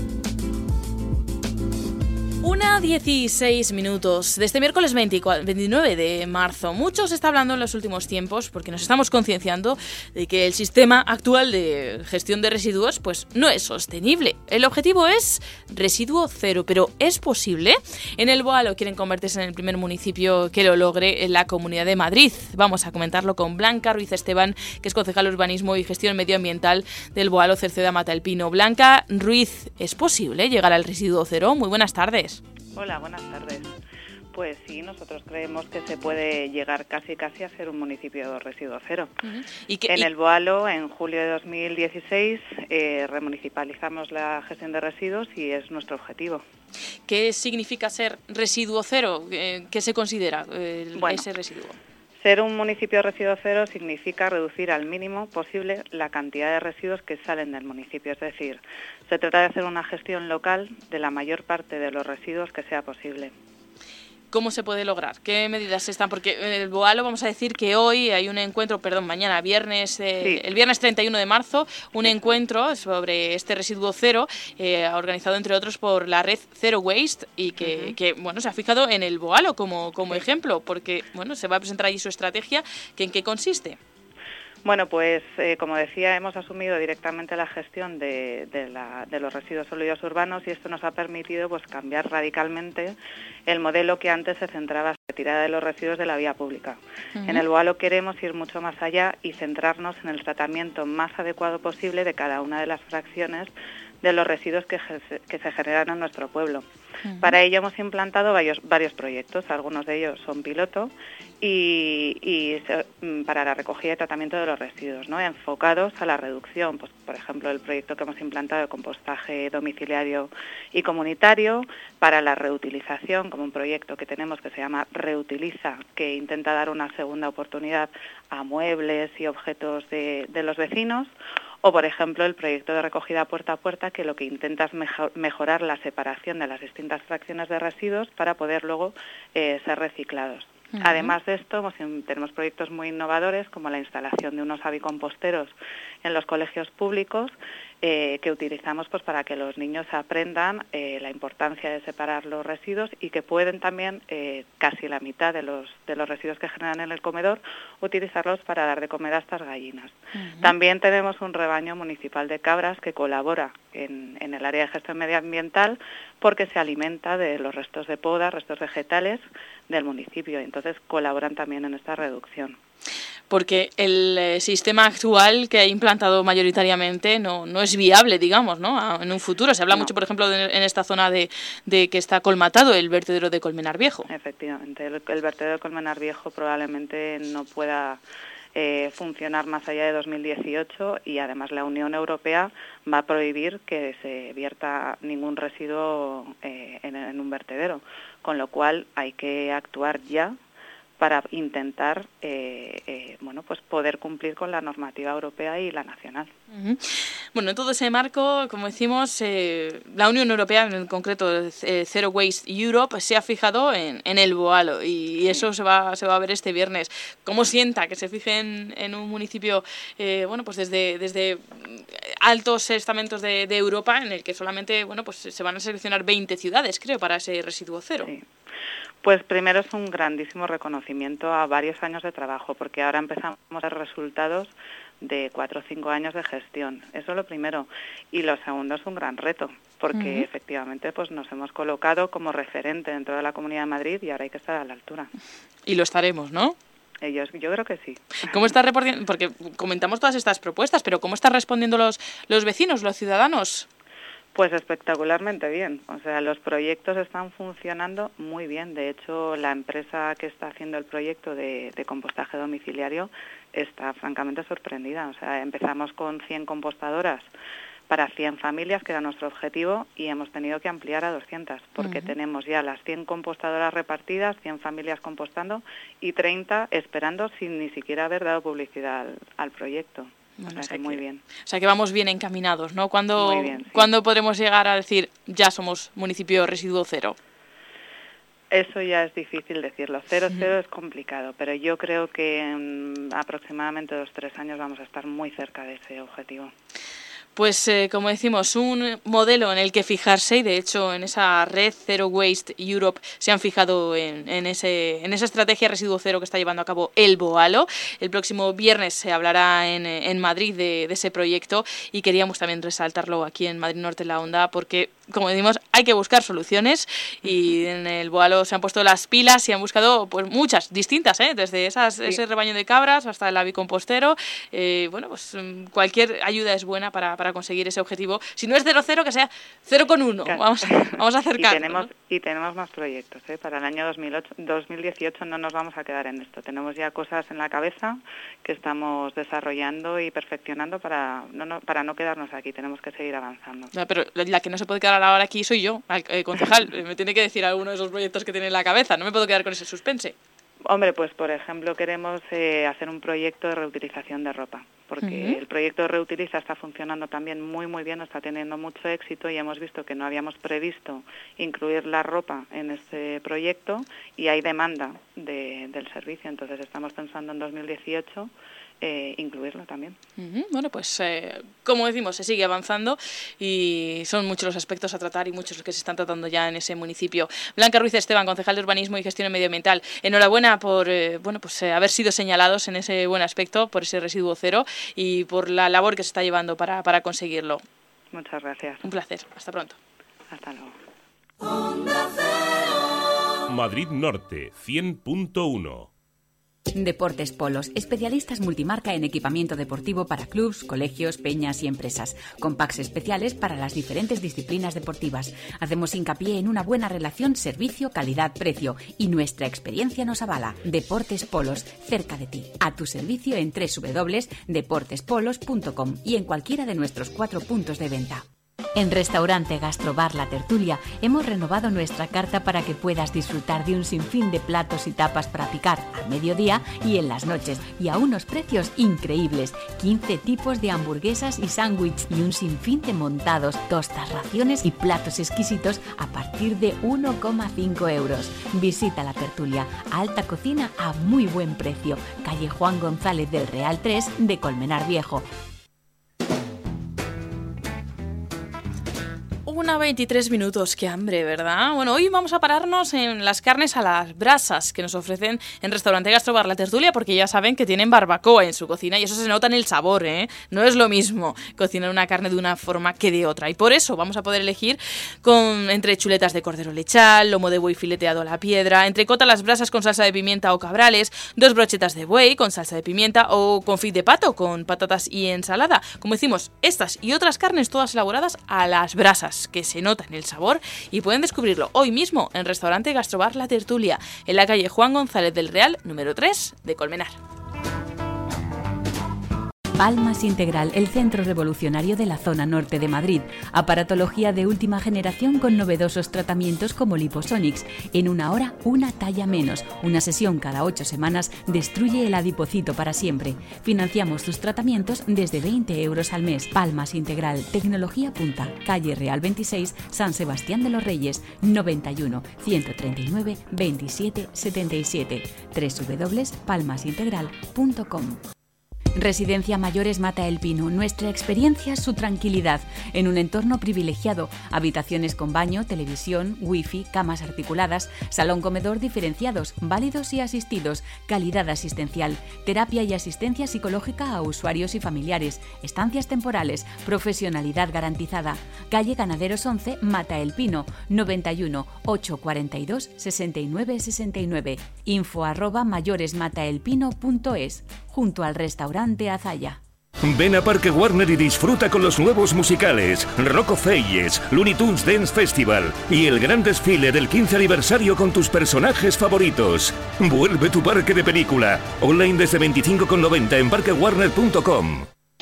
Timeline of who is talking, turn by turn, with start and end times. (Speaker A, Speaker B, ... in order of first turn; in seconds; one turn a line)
Speaker A: 2.4-32.4
Speaker B: 32.8-33.7
Speaker B: 34.3-39.1
Speaker A: 39.2-40.1
Speaker B: 39.9-46.4
Speaker A: 47.0-51.8
Speaker B: 51.0-51.2
Speaker B: 52.2-63.3
Speaker A: 64.3-83.8
Speaker B: 77.6-77.9
Speaker B: 84.6-93.0
Speaker B: 93.5-106.6
Speaker A: 97.2-97.5
Speaker A: 107.0-107.3
Speaker B: 107.2-131.1
Speaker B: 131.6-172.6
Speaker A: 140.7-141.1
Speaker A: 160.2-160.5
Speaker A: 173.3-184.1
Speaker B: 184.1-188.0
Speaker B: 188.6-200.3
Speaker B: 201.0-206.3
Speaker A: 206.5-228.1
Speaker B: 229.0-245.1
Speaker A: 239.9-240.2
Speaker A: 245.6-246.6
Speaker B: 247.0-248.4
Speaker A: 248.3-253.7
Speaker B: 254.3-267.3
Speaker B: 267.9-281.2
Speaker A: 271.8-272.1
Speaker A: 280.4-287.2
Speaker B: 283.1-283.9
Speaker B: 288.5-296.5
Speaker A: 297.3-331.9
Speaker B: 330.2-343.7
Speaker A: 343.7-350.1
Speaker B: 350.7-368.3
Speaker A: 355.0-355.4
Speaker B: 368.8-369.9
Speaker A: 370.2-387.6
Speaker B: 388.1-388.9
Speaker A: 388.8-389.8
Speaker B: 390.3-390.7
Speaker C: 393.5-395.9
Speaker D: 396.7-445.2
Speaker A: 449.4-487.2
Speaker D: 489.8-518.2
Speaker D: 519.0-549.6
Speaker E: 550.0-564.9